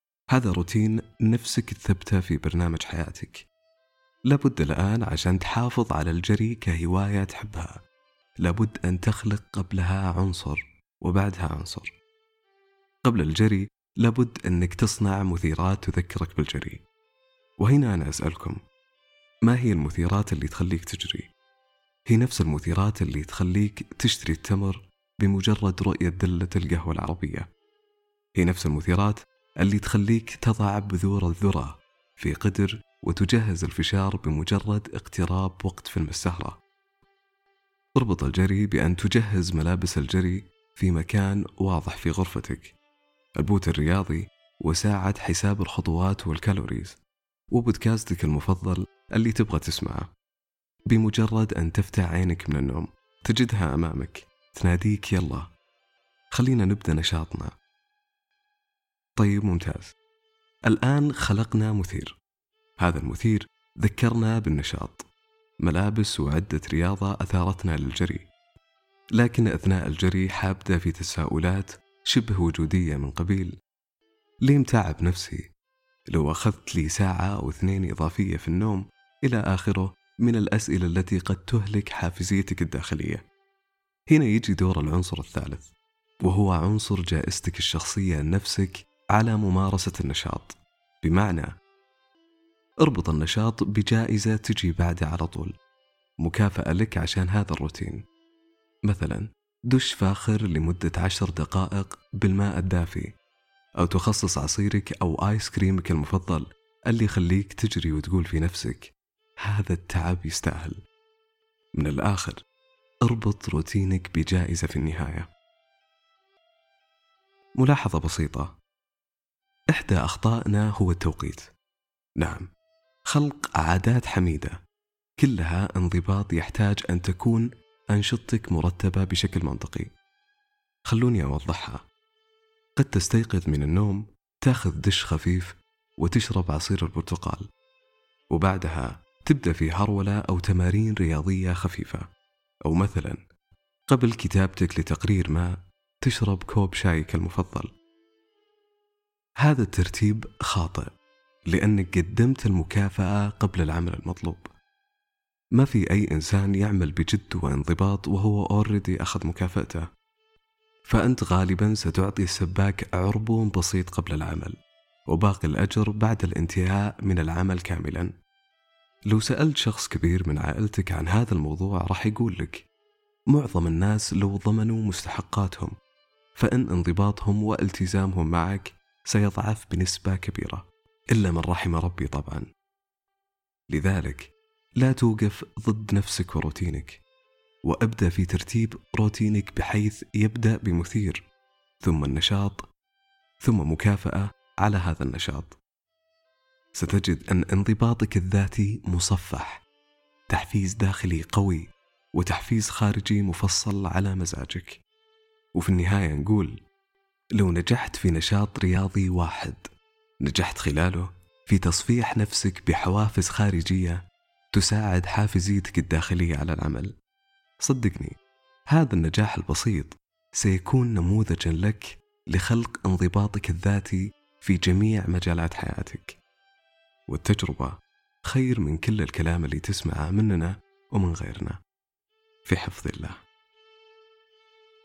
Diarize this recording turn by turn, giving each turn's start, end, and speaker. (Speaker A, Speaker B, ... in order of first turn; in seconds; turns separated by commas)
Speaker A: 0.3-3.5, Speaker A: 4.3-7.8, Speaker A: 8.4-11.9, Speaker A: 13.0-16.8, Speaker A: 17.6-18.6, Speaker A: 19.4-21.3, Speaker A: 22.1-27.5, Speaker A: 28.4-36.6, Speaker A: 38.0-42.7, Speaker A: 43.4-47.0, Speaker A: 47.5-50.1, Speaker A: 50.9-55.5, Speaker A: 56.3-57.5, Speaker A: 59.2-59.9, Speaker A: 60.6-62.2, Speaker A: 62.8-65.0, Speaker A: 65.6-68.3, Speaker A: 69.2-73.5, Speaker A: 74.4-75.5, Speaker A: 76.1-83.2, Speaker A: 84.1-85.7, Speaker A: 86.2-91.5, Speaker A: 92.8-95.5, Speaker A: 96.2-98.0, Speaker A: 98.9-103.1, Speaker A: 103.8-110.8, Speaker A: 111.8-112.4, Speaker A: 113.0-115.3, Speaker A: 117.6-118.5, Speaker A: 119.7-121.5, Speaker A: 122.2-122.5, Speaker A: 123.1-124.6, Speaker A: 125.2-129.9, Speaker A: 130.9-131.8, Speaker A: 132.8-137.4, Speaker A: 138.3-142.1, Speaker A: 142.6-143.2, Speaker A: 143.9-147.7, Speaker A: 149.4-150.9, Speaker A: 151.5-154.5, Speaker A: 155.5-159.9, Speaker A: 160.9-164.6, Speaker A: 165.1-168.1, Speaker A: 169.1-172.7, Speaker A: 173.3-175.7, Speaker A: 176.4-182.5, Speaker A: 183.7-187.0, Speaker A: 187.6-191.2, Speaker A: 191.8-192.7, Speaker A: 193.4-195.6, Speaker A: 196.7-199.6, Speaker A: 200.3-204.8, Speaker A: 205.5-206.6, Speaker A: 207.4-209.7, Speaker A: 210.2-214.0, Speaker A: 214.5-216.9, Speaker A: 217.6-218.1, Speaker A: 218.7-226.2, Speaker A: 227.1-231.6, Speaker A: 232.4-233.2